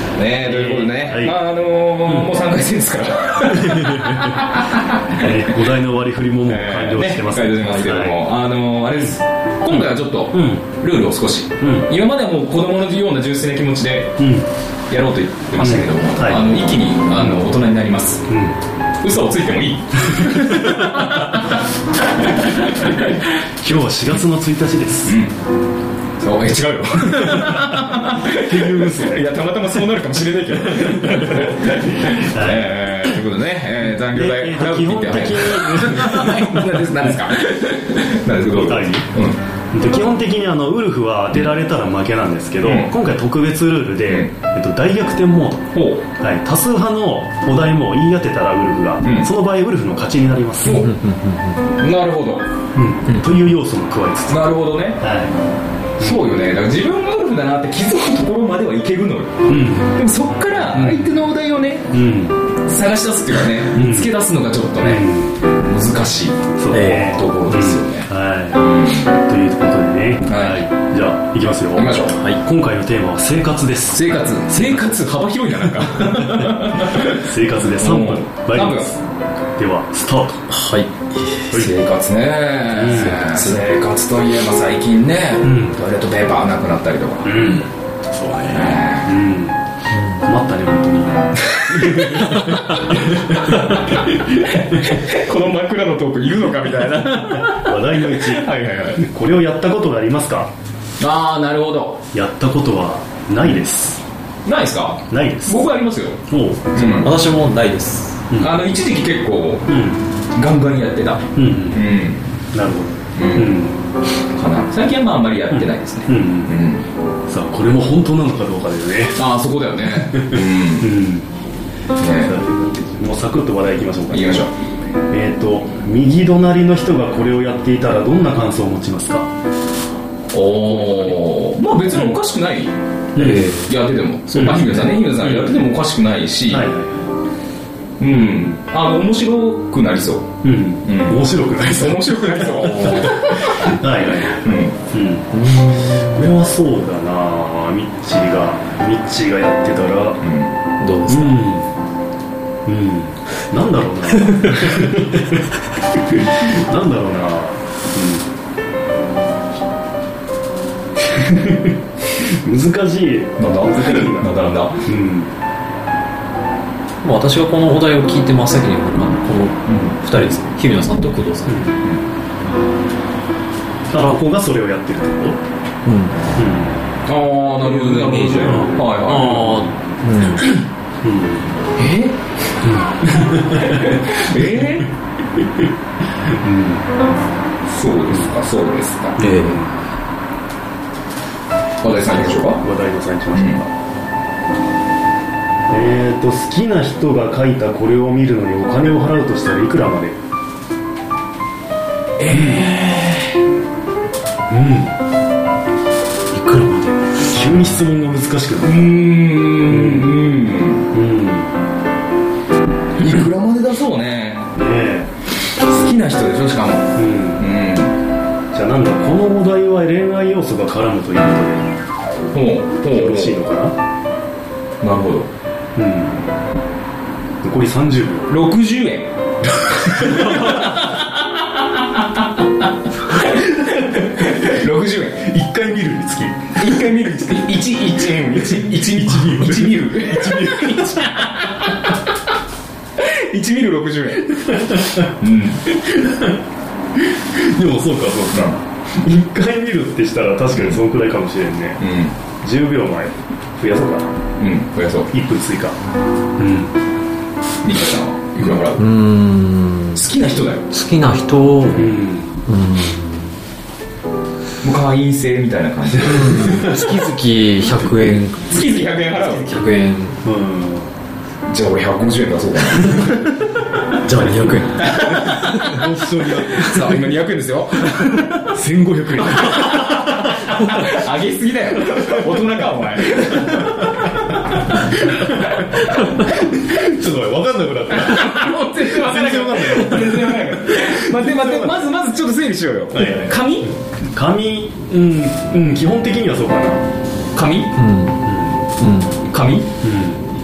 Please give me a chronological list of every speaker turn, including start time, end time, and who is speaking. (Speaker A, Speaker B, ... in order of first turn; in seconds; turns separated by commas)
Speaker A: 0.1-5.5, Speaker B: 0.4-1.4, Speaker B: 2.0-2.4, Speaker B: 3.5-4.4, Speaker B: 5.1-8.2, Speaker A: 6.5-14.2, Speaker B: 9.7-10.7, Speaker B: 11.6-11.9, Speaker B: 14.2-14.5, Speaker A: 14.9-18.2, Speaker B: 15.6-16.6, Speaker B: 17.2-17.5, Speaker B: 18.3-18.6, Speaker A: 19.0-23.3, Speaker B: 20.4-21.0, Speaker B: 23.6-25.2, Speaker A: 25.1-25.3, Speaker A: 26.2-39.4, Speaker B: 28.4-29.3, Speaker B: 30.8-31.6, Speaker B: 32.1-32.7, Speaker B: 34.1-36.9, Speaker B: 38.5-39.1, Speaker B: 39.7-50.9, Speaker A: 42.6-42.9, Speaker A: 44.1-44.3, Speaker A: 45.7-46.0, Speaker A: 49.0-49.3, Speaker A: 50.6-50.9, Speaker C: 50.6-51.6, Speaker A: 51.7-52.5, Speaker B: 52.7-55.4, Speaker A: 54.3-55.0, Speaker B: 56.0-56.3, Speaker A: 56.0-61.9, Speaker B: 59.5-59.9, Speaker B: 60.7-61.1, Speaker B: 61.9-62.4, Speaker A: 62.6-65.1, Speaker B: 63.7-64.1, Speaker B: 64.8-65.3, Speaker A: 65.6-69.2, Speaker B: 66.6-68.6, Speaker C: 66.7-67.1, Speaker B: 69.2-74.0, Speaker A: 70.2-70.7, Speaker A: 71.7-72.2, Speaker A: 73.9-79.0, Speaker B: 74.6-74.8, Speaker B: 76.0-76.5, Speaker B: 77.1-79.0, Speaker B: 79.5-80.5, Speaker C: 80.5-81.5, Speaker A: 81.5-87.6, Speaker B: 82.7-83.4, Speaker B: 85.4-85.8, Speaker B: 87.2-94.8, Speaker A: 88.4-89.1, Speaker A: 91.5-99.0, Speaker B: 97.5-100.5, Speaker A: 101.0-102.0, Speaker B: 102.1-104.0, Speaker A: 104.5-106.2, Speaker B: 105.1-105.7, Speaker B: 106.3-107.0, Speaker A: 106.7-107.2, Speaker C: 107.0-108.2, Speaker B: 108.3-108.6, Speaker A: 108.4-109.7, Speaker B: 109.7-110.0, Speaker A: 110.3-112.3, Speaker B: 111.3-111.8, Speaker B: 112.5-113.8, Speaker A: 113.2-113.6, Speaker A: 114.3-116.8, Speaker B: 115.5-116.5, Speaker B: 117.3-119.2, Speaker A: 119.1-121.0, Speaker B: 119.9-121.3, Speaker A: 122.0-122.3, Speaker B: 122.1-124.5, Speaker A: 124.1-124.5, Speaker B: 125.1-129.3, Speaker A: 130.3-136.7, Speaker B: 133.2-133.7, Speaker B: 134.3-135.6, Speaker B: 136.5-137.1, Speaker A: 138.0-140.3, Speaker B: 138.1-138.5, Speaker B: 140.4-150.2, Speaker A: 140.8-144.8, Speaker C: 142.6-143.1, Speaker C: 145.3-146.3, Speaker A: 150.2-150.5, Speaker C: 150.8-151.5, Speaker B: 151.1-151.7, Speaker B: 152.7-155.5, Speaker B: 156.1-158.2, Speaker B: 161.1-164.3, Speaker A: 163.4-164.8, Speaker B: 164.8-165.3, Speaker C: 167.0-171.6, Speaker A: 169.7-170.0, Speaker B: 171.5-171.8, Speaker B: 173.9-175.4, Speaker C: 175.8-176.2, Speaker B: 176.3-176.8, Speaker A: 177.1-179.7, Speaker C: 177.6-180.5, Speaker B: 178.4-178.7, Speaker B: 181.0-181.5, Speaker A: 181.8-182.2, Speaker B: 182.6-183.9, Speaker A: 183.5-184.9, Speaker B: 186.2-186.8, Speaker A: 187.7-189.5, Speaker B: 189.2-189.7, Speaker C: 189.2-189.6, Speaker A: 191.8-192.6, Speaker B: 192.3-193.7, Speaker A: 193.3-193.6, Speaker B: 195.7-200.2, Speaker A: 202.2-203.3, Speaker B: 202.3-202.7, Speaker B: 204.5-204.9, Speaker C: 206.3-207.0, Speaker B: 207.2-209.1, Speaker A: 208.6-210.9, Speaker B: 209.6-210.2, Speaker B: 210.9-211.5, Speaker A: 213.0-214.5, Speaker B: 214.5-215.1, Speaker A: 215.6-217.9, Speaker B: 216.9-217.5, Speaker B: 218.5-221.7, Speaker A: 222.3-223.4, Speaker B: 222.8-223.8, Speaker A: 224.8-225.3, Speaker B: 225.8-226.2, Speaker B: 227.4-228.3, Speaker A: 228.3-229.1, Speaker A: 229.7-235.4, Speaker B: 230.0-230.8, Speaker B: 235.3-236.6, Speaker A: 236.4-242.0, Speaker B: 238.5-241.1, Speaker A: 243.0-245.7, Speaker B: 244.3-245.1, Speaker B: 245.7-246.4, Speaker B: 247.1-251.8, Speaker A: 251.8-252.1, Speaker B: 252.4-254.1, Speaker A: 254.4-255.1, Speaker B: 255.1-255.8, Speaker B: 256.4-256.7, Speaker A: 257.6-258.8, Speaker B: 258.4-258.6, Speaker C: 258.8-260.0, Speaker A: 259.9-260.7, Speaker C: 260.7-263.4, Speaker B: 261.7-262.3, Speaker A: 264.6-266.8, Speaker B: 266.0-266.8, Speaker C: 266.0-270.2, Speaker A: 268.5-269.5, Speaker B: 270.2-270.9, Speaker A: 271.5-273.3, Speaker C: 274.0-275.6, Speaker A: 274.8-275.9, Speaker B: 275.0-277.1, Speaker A: 276.5-278.5, Speaker B: 278.5-280.4, Speaker A: 279.2-285.4, Speaker B: 283.4-291.8, Speaker A: 287.9-293.7, Speaker B: 292.9-293.4, Speaker B: 294.1-296.8, Speaker A: 297.3-297.8, Speaker C: 297.8-298.2, Speaker B: 298.2-298.6, Speaker C: 298.8-299.1, Speaker A: 299.3-299.7, Speaker B: 299.8-300.2